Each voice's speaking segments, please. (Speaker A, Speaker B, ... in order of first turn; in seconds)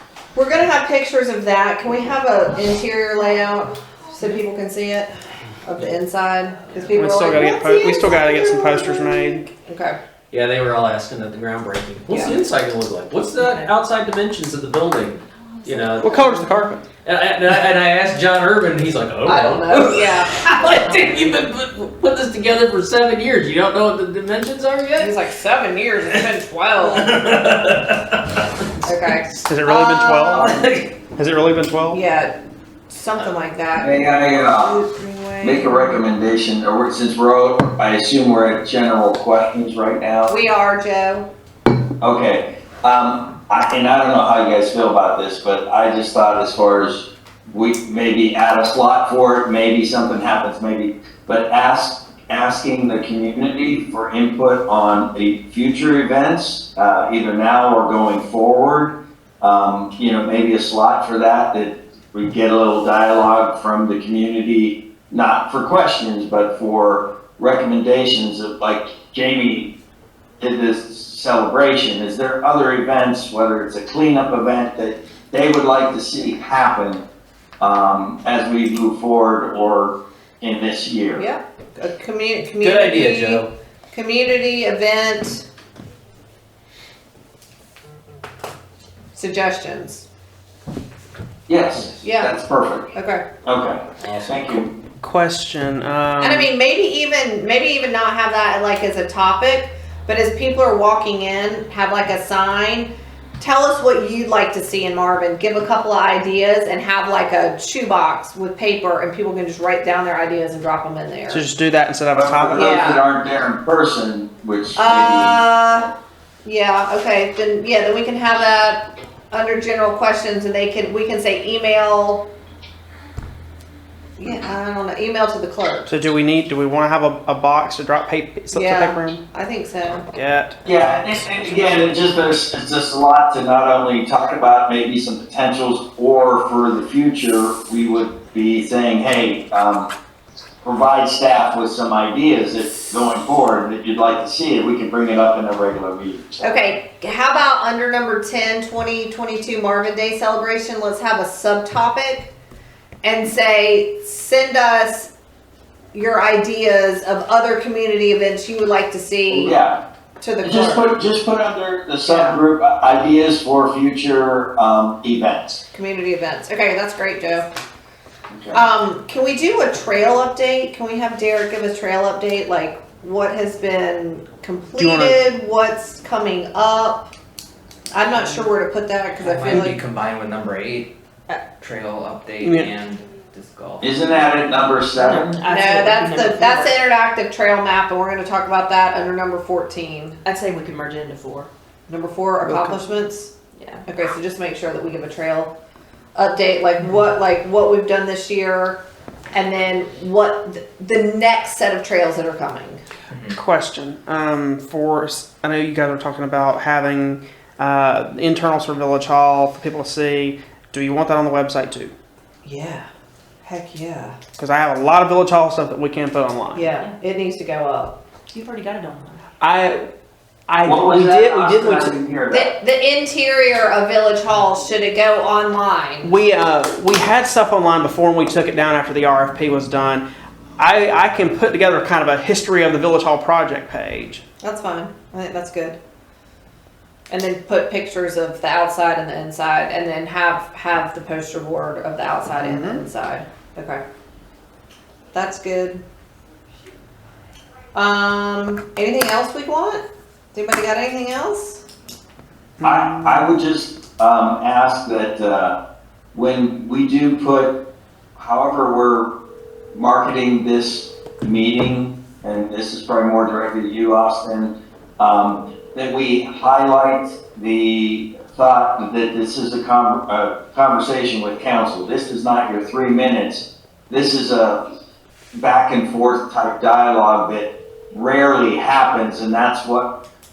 Speaker A: 0.3-9.0, 9.7-10.0, 12.1-12.3, 19.2-20.3, 24.9-27.2, 28.8-30.6, 31.9-36.0, 40.3-41.3, 81.2-85.4, 89.1-90.1, 92.0-92.3, 92.9-93.2, 96.2-111.5, 112.5-113.0, 114.8-115.9, 116.4-122.3, 124.2-125.9, 128.5-130.1, 146.4-152.3, 153.0-155.1, 155.9-159.6, 160.2-160.8, 162.1-162.4, 165.7-167.5, 168.5-177.1, 177.9-179.8, 185.5-190.2, 191.9-193.3, 193.9-195.5, 196.2-202.8, 212.4-212.8, 213.4-214.2, 216.6-218.0, 222.3-226.1, 234.4-235.8, 237.1-243.8, 245.1-245.8, 247.7-251.6
Speaker B: 6.9-9.5, 16.0-16.8, 29.3-30.6, 31.1-32.0, 95.0-96.5, 111.3-112.7, 125.9-129.2, 130.1-131.7, 174.8-175.2, 182.4-182.7, 192.5-192.8, 203.3-211.9, 214.4-216.7, 219.4-219.9, 220.5-221.9, 226.0-230.1, 230.6-234.2, 242.4-242.8, 252.6-253.2
Speaker C: 10.3-16.2, 17.0-25.1, 26.8-28.4, 30.4-30.9, 82.6-83.5
Speaker D: 33.8-34.8, 35.4-40.3, 42.0-69.7, 70.4-77.0, 77.6-81.2, 91.5-92.9, 93.4-94.7, 112.1-115.4, 130.7-139.9, 140.6-146.4, 159.3-159.8, 160.4-165.6, 168.3-168.6, 183.8-185.4, 220.7-222.5, 252.6-255.6, 256.1-259.1, 259.7-274.6, 275.3-280.0
Speaker E: 179.2-184.0, 203.1-203.4
Speaker F: 184.9-186.7, 190.2-191.5, 193.6-193.8, 218.3-219.3